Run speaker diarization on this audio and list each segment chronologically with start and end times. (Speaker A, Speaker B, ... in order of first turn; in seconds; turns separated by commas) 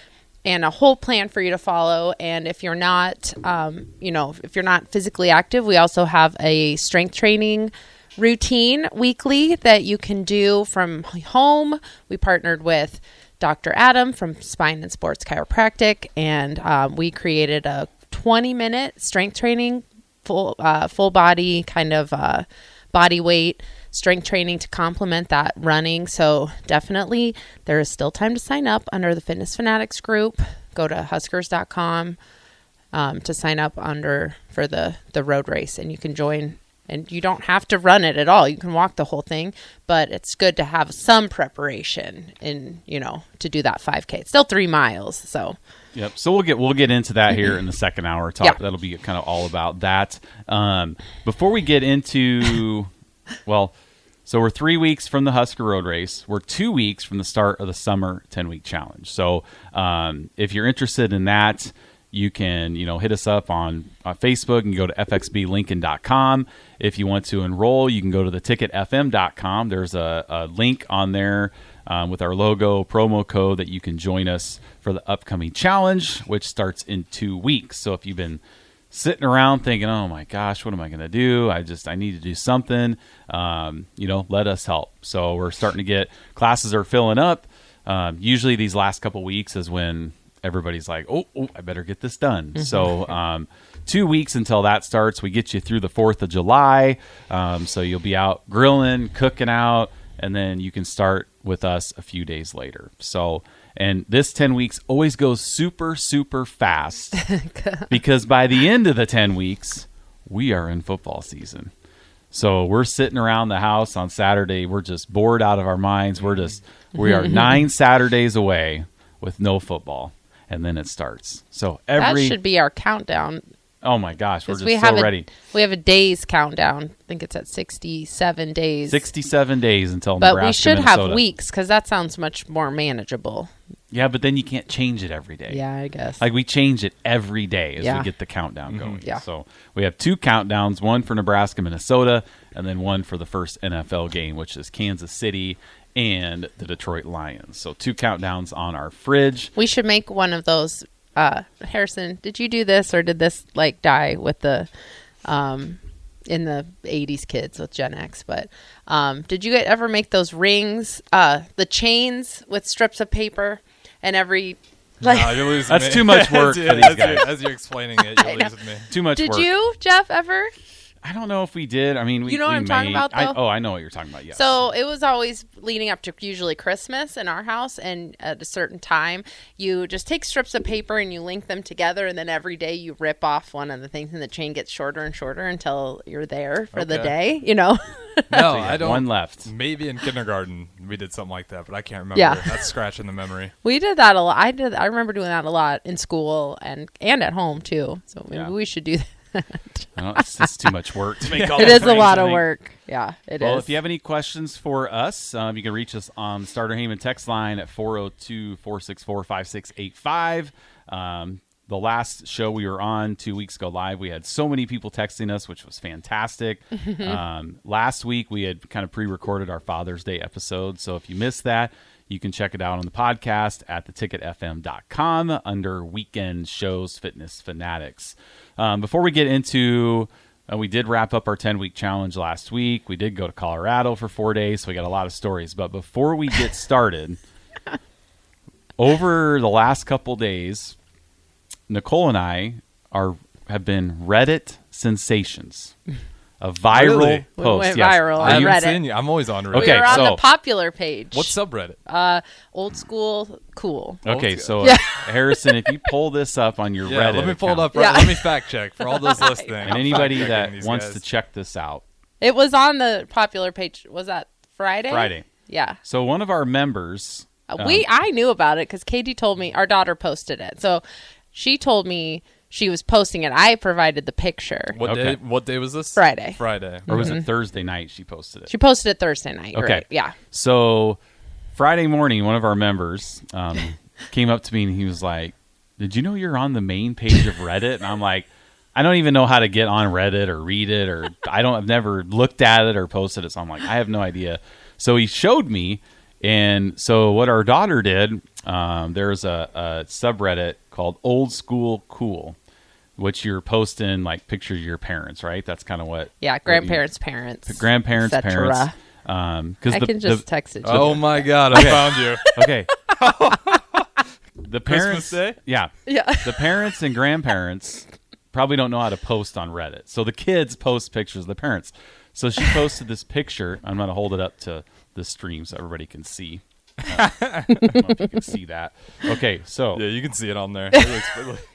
Speaker A: 0.5-32.2, Speaker A: 32.9-45.5, Speaker B: 45.9-52.9, Speaker B: 53.5-53.7, Speaker B: 54.2-107.3, Speaker A: 107.3-107.9, Speaker B: 107.9-111.7, Speaker B: 112.3-122.4, Speaker A: 122.0-123.4, Speaker B: 123.8-125.3, Speaker A: 124.5-128.9, Speaker B: 128.9-131.2, Speaker A: 130.2-133.5, Speaker B: 133.9-135.6, Speaker A: 135.5-136.1, Speaker B: 136.2-149.5, Speaker C: 138.7-139.0, Speaker A: 149.6-154.7, Speaker A: 155.2-155.8, Speaker A: 156.3-165.5, Speaker C: 165.0-168.9, Speaker B: 165.6-167.3, Speaker B: 168.9-169.6, Speaker A: 169.1-170.5, Speaker B: 171.0-174.7, Speaker A: 172.3-173.3, Speaker A: 174.4-188.3, Speaker C: 186.7-187.2, Speaker C: 188.3-193.5, Speaker B: 188.3-189.5, Speaker A: 192.1-192.4, Speaker A: 193.6-199.9, Speaker B: 199.9-202.5, Speaker C: 201.3-202.3, Speaker A: 201.6-203.7, Speaker B: 203.4-237.2, Speaker B: 238.8-240.8, Speaker B: 241.7-245.7, Speaker B: 246.4-248.7, Speaker C: 246.7-247.3, Speaker A: 247.4-248.8, Speaker C: 248.2-250.2, Speaker B: 249.5-250.2, Speaker A: 249.5-251.1, Speaker C: 251.1-251.8, Speaker A: 251.9-254.0, Speaker B: 254.0-258.0, Speaker C: 254.0-254.8, Speaker C: 256.8-261.0, Speaker A: 257.7-258.3, Speaker A: 258.9-259.7, Speaker B: 259.6-261.8, Speaker A: 262.2-265.7, Speaker B: 264.9-265.3, Speaker B: 265.8-267.9, Speaker A: 267.8-270.8, Speaker A: 271.3-274.6, Speaker C: 274.7-277.2, Speaker B: 274.8-275.2, Speaker A: 276.0-276.4, Speaker B: 276.9-278.5, Speaker A: 278.5-280.1, Speaker B: 279.5-281.0, Speaker B: 281.6-302.4, Speaker B: 303.0-306.9, Speaker A: 306.4-307.4, Speaker B: 307.4-312.7, Speaker A: 308.1-308.7, Speaker A: 310.3-311.1, Speaker C: 310.6-312.3, Speaker C: 312.9-313.9, Speaker B: 314.4-329.8, Speaker C: 314.6-315.4, Speaker C: 326.8-327.8, Speaker C: 329.7-331.4